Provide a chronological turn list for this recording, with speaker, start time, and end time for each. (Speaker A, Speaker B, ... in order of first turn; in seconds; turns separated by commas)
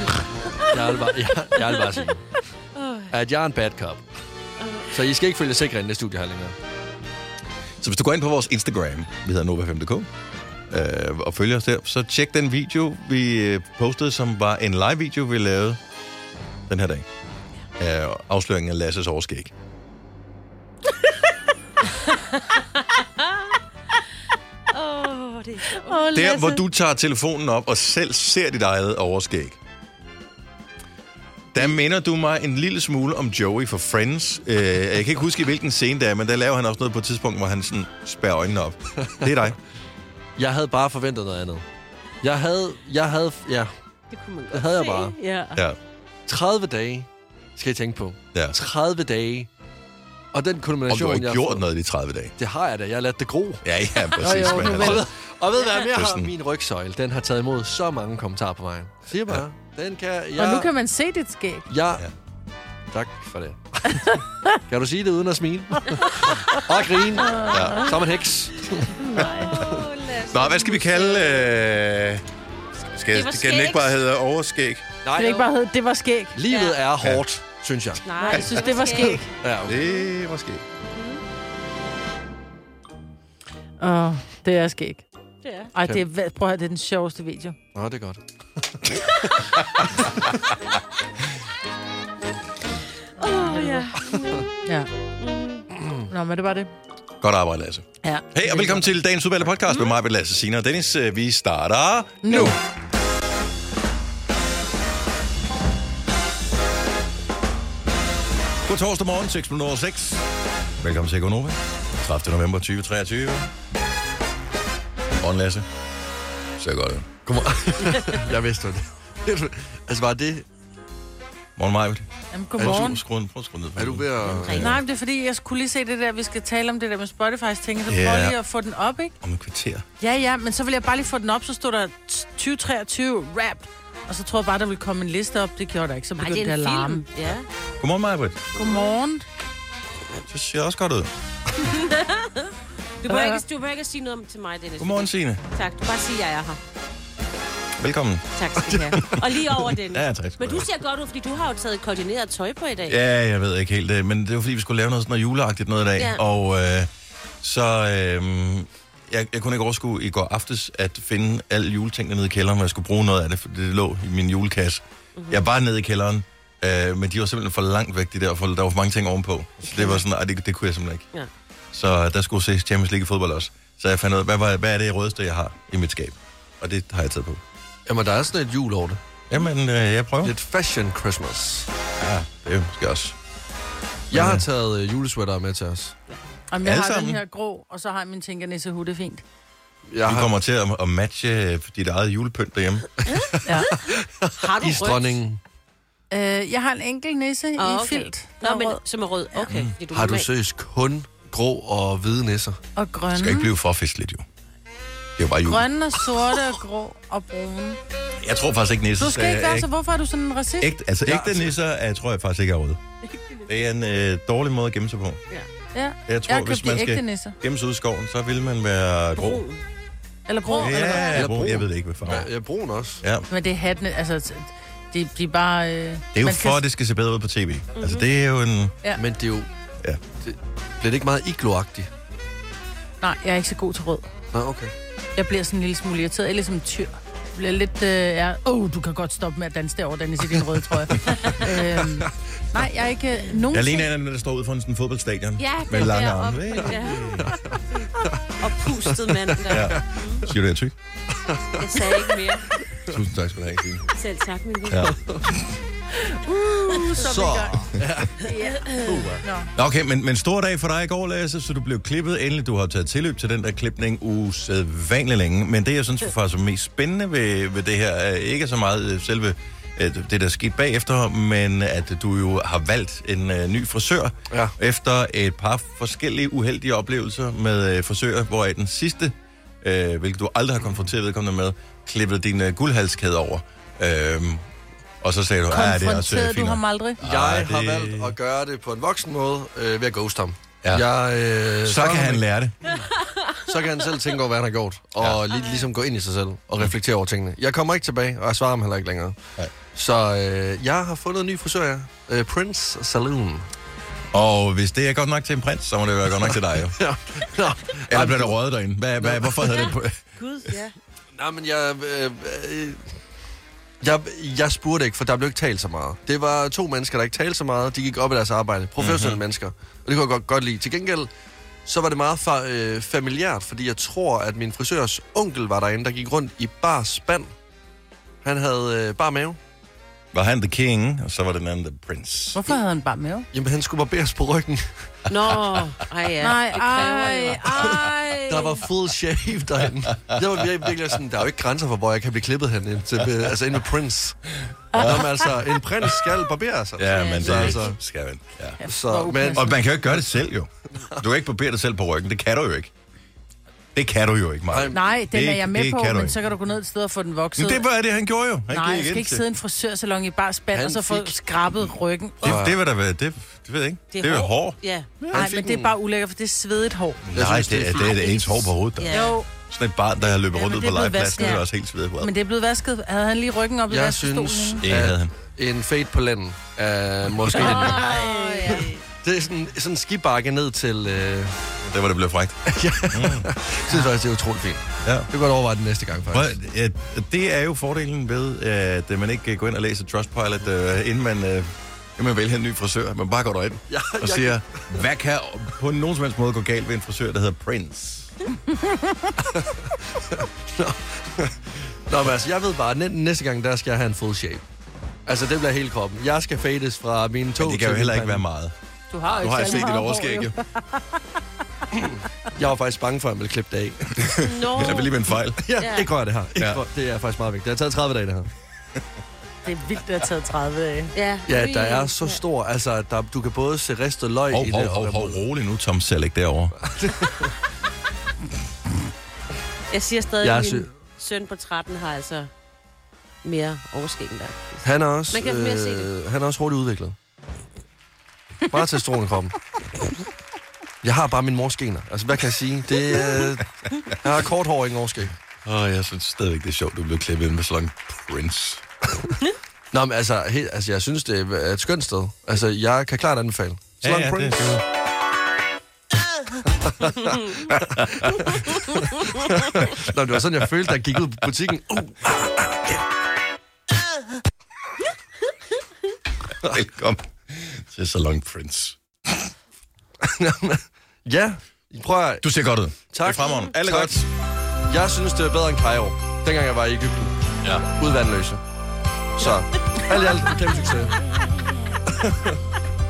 Speaker A: 0.7-2.0, Speaker B: 0.7-2.3, Speaker A: 2.8-3.1, Speaker B: 3.1-4.0, Speaker A: 4.6-4.9, Speaker B: 4.9-6.5, Speaker C: 7.8-10.1, Speaker C: 10.7-15.8, Speaker C: 16.7-17.1, Speaker C: 17.8-19.5, Speaker A: 22.1-23.3, Speaker A: 24.7-26.6, Speaker D: 25.8-26.4, Speaker C: 26.1-29.6, Speaker C: 31.5-39.6, Speaker B: 40.4-41.6, Speaker B: 42.2-43.7, Speaker A: 44.1-45.6, Speaker B: 44.5-45.1, Speaker B: 46.3-49.5, Speaker B: 50.3-51.6, Speaker C: 50.9-52.3, Speaker B: 52.4-53.6, Speaker C: 53.6-55.1, Speaker D: 54.2-55.0, Speaker B: 54.3-60.7, Speaker C: 55.8-56.3, Speaker D: 60.4-61.7, Speaker B: 61.7-62.0, Speaker B: 62.9-69.0, Speaker A: 67.3-68.0, Speaker C: 67.5-67.9, Speaker D: 69.1-69.5, Speaker A: 69.1-71.5, Speaker C: 69.2-69.5, Speaker C: 70.3-72.2, Speaker C: 72.8-74.9, Speaker A: 73.1-74.0, Speaker B: 75.0-75.4, Speaker D: 75.2-76.4, Speaker B: 76.4-78.0, Speaker A: 76.5-76.8, Speaker A: 78.0-79.2, Speaker D: 78.2-79.3, Speaker B: 79.4-79.8, Speaker C: 79.7-80.6, Speaker A: 80.9-81.2, Speaker D: 83.8-85.0, Speaker A: 85.4-85.7, Speaker D: 85.7-87.6, Speaker B: 87.8-89.0, Speaker B: 90.0-90.3, Speaker A: 93.2-94.5, Speaker D: 93.5-93.9, Speaker B: 94.1-94.4, Speaker A: 95.2-95.7, Speaker D: 96.1-96.7, Speaker C: 97.2-102.6, Speaker D: 98.0-98.9, Speaker D: 102.2-102.5, Speaker C: 108.6-110.2, Speaker C: 110.8-113.5, Speaker C: 115.2-115.7, Speaker C: 116.6-117.1, Speaker B: 117.3-120.5, Speaker C: 121.6-124.8, Speaker D: 122.3-123.0, Speaker B: 123.8-124.8, Speaker A: 124.3-124.6, Speaker D: 124.6-129.1, Speaker C: 127.9-128.4, Speaker C: 129.2-129.8, Speaker D: 130.0-137.0, Speaker A: 136.2-137.5, Speaker C: 137.8-138.5, Speaker D: 138.6-139.2, Speaker C: 140.3-141.1, Speaker A: 141.7-146.6, Speaker D: 143.1-143.4, Speaker C: 144.8-145.4, Speaker C: 147.8-150.7, Speaker A: 148.4-153.0, Speaker C: 152.9-156.9, Speaker A: 156.0-156.2, Speaker C: 157.4-171.1, Speaker A: 165.2-165.4, Speaker A: 169.8-170.0, Speaker C: 171.7-177.4, Speaker B: 177.9-179.0, Speaker C: 179.3-180.3, Speaker B: 180.2-181.7, Speaker C: 182.0-183.2, Speaker C: 184.1-184.5, Speaker B: 184.1-185.9, Speaker D: 186.5-189.2, Speaker C: 186.6-187.2, Speaker B: 189.9-190.3, Speaker C: 190.1-192.9, Speaker A: 193.2-195.2, Speaker B: 193.2-195.4, Speaker D: 196.1-198.8, Speaker A: 197.6-200.3, Speaker C: 199.5-199.8, Speaker B: 199.9-202.6, Speaker D: 202.8-203.5, Speaker C: 203.1-204.2, Speaker C: 205.2-205.7, Speaker D: 205.4-207.8, Speaker C: 208.2-209.7, Speaker D: 209.0-210.7, Speaker C: 210.6-212.8, Speaker B: 211.1-211.5, Speaker C: 213.5-215.2, Speaker D: 215.8-217.4, Speaker C: 216.1-219.4, Speaker A: 219.2-219.6, Speaker D: 220.3-221.3, Speaker B: 220.5-223.0, Speaker C: 220.6-222.3, Speaker C: 223.0-223.3, Speaker D: 223.3-226.6, Speaker C: 226.1-228.8, Speaker A: 227.8-228.1, Speaker B: 228.9-229.5, Speaker B: 230.2-231.9, Speaker D: 233.0-234.1, Speaker B: 234.3-234.7, Speaker D: 235.2-243.9, Speaker B: 241.1-242.1, Speaker C: 243.5-247.3, Speaker A: 245.4-247.3, Speaker B: 247.2-247.6, Speaker A: 248.4-250.2, Speaker B: 248.9-249.9, Speaker C: 249.5-250.7, Speaker B: 251.2-252.0, Speaker A: 251.6-252.5, Speaker C: 252.9-253.9, Speaker A: 253.9-254.9, Speaker C: 254.7-255.4, Speaker B: 254.8-255.3, Speaker D: 256.7-259.5, Speaker B: 256.9-258.2, Speaker A: 258.6-258.9, Speaker B: 258.8-259.2, Speaker C: 259.6-284.4, Speaker C: 285.0-288.1, Speaker D: 285.5-287.0, Speaker B: 287.0-292.2, Speaker C: 291.6-292.6, Speaker B: 293.5-299.2, Speaker A: 295.3-295.7, Speaker B: 299.7-303.5, Speaker C: 304.1-306.8, Speaker B: 306.2-308.4, Speaker C: 307.9-310.0, Speaker B: 309.0-309.7, Speaker A: 309.5-310.7, Speaker B: 311.2-312.8, Speaker B: 313.8-321.1, Speaker C: 318.8-319.2, Speaker B: 321.7-327.3, Speaker B: 328.2-329.4, Speaker C: 330.1-332.4, Speaker D: 332.3-333.3, Speaker B: 333.3-335.0, Speaker A: 335.1-337.7, Speaker D: 336.2-338.6, Speaker B: 337.6-344.2, Speaker C: 344.7-345.3, Speaker B: 344.8-347.7, Speaker C: 346.8-348.6, Speaker A: 346.9-347.8, Speaker D: 348.6-349.6, Speaker B: 348.6-349.5, Speaker C: 349.3-352.7, Speaker C: 353.8-356.2, Speaker B: 354.5-354.8, Speaker D: 354.7-357.6, Speaker C: 357.4-359.2, Speaker D: 358.5-362.4, Speaker B: 360.5-361.2, Speaker B: 362.2-362.6, Speaker C: 362.2-364.6, Speaker A: 363.9-364.9, Speaker B: 365.0-365.8, Speaker D: 365.1-367.1, Speaker C: 367.1-368.9, Speaker B: 367.1-367.9, Speaker A: 367.8-369.2, Speaker D: 368.9-369.2, Speaker C: 369.5-372.1, Speaker D: 370.3-371.4, Speaker D: 372.0-374.6, Speaker B: 373.7-377.8, Speaker C: 374.6-375.1, Speaker A: 377.4-378.7, Speaker D: 377.4-378.8, Speaker B: 379.0-381.4, Speaker C: 381.6-383.3, Speaker B: 382.5-386.3, Speaker C: 384.8-385.1, Speaker C: 386.1-398.1, Speaker B: 393.7-394.8, Speaker D: 398.5-399.1, Speaker B: 399.2-404.4, Speaker B: 405.1-408.2, Speaker C: 407.4-408.5, Speaker D: 408.9-411.0, Speaker C: 409.1-410.3, Speaker B: 411.7-414.8, Speaker C: 414.1-415.4, Speaker A: 414.2-414.9, Speaker B: 415.4-418.3, Speaker A: 415.6-415.9, Speaker C: 416.4-416.6, Speaker D: 419.4-420.9, Speaker A: 420.9-422.2, Speaker B: 421.3-425.2, Speaker C: 424.3-426.6, Speaker B: 426.7-427.3, Speaker A: 429.7-432.3, Speaker B: 430.2-430.7, Speaker A: 433.2-435.9, Speaker B: 434.6-437.0, Speaker B: 438.5-439.4, Speaker B: 440.8-445.1, Speaker C: 445.4-448.6, Speaker B: 449.7-454.6, Speaker C: 453.8-454.6, Speaker B: 456.6-458.1, Speaker C: 457.8-458.4, Speaker B: 458.7-462.8, Speaker C: 466.4-469.3, Speaker B: 470.0-472.3, Speaker C: 472.2-474.1, Speaker B: 472.9-473.9, Speaker B: 474.7-477.1, Speaker B: 477.7-478.4, Speaker B: 479.2-480.9, Speaker B: 481.9-482.4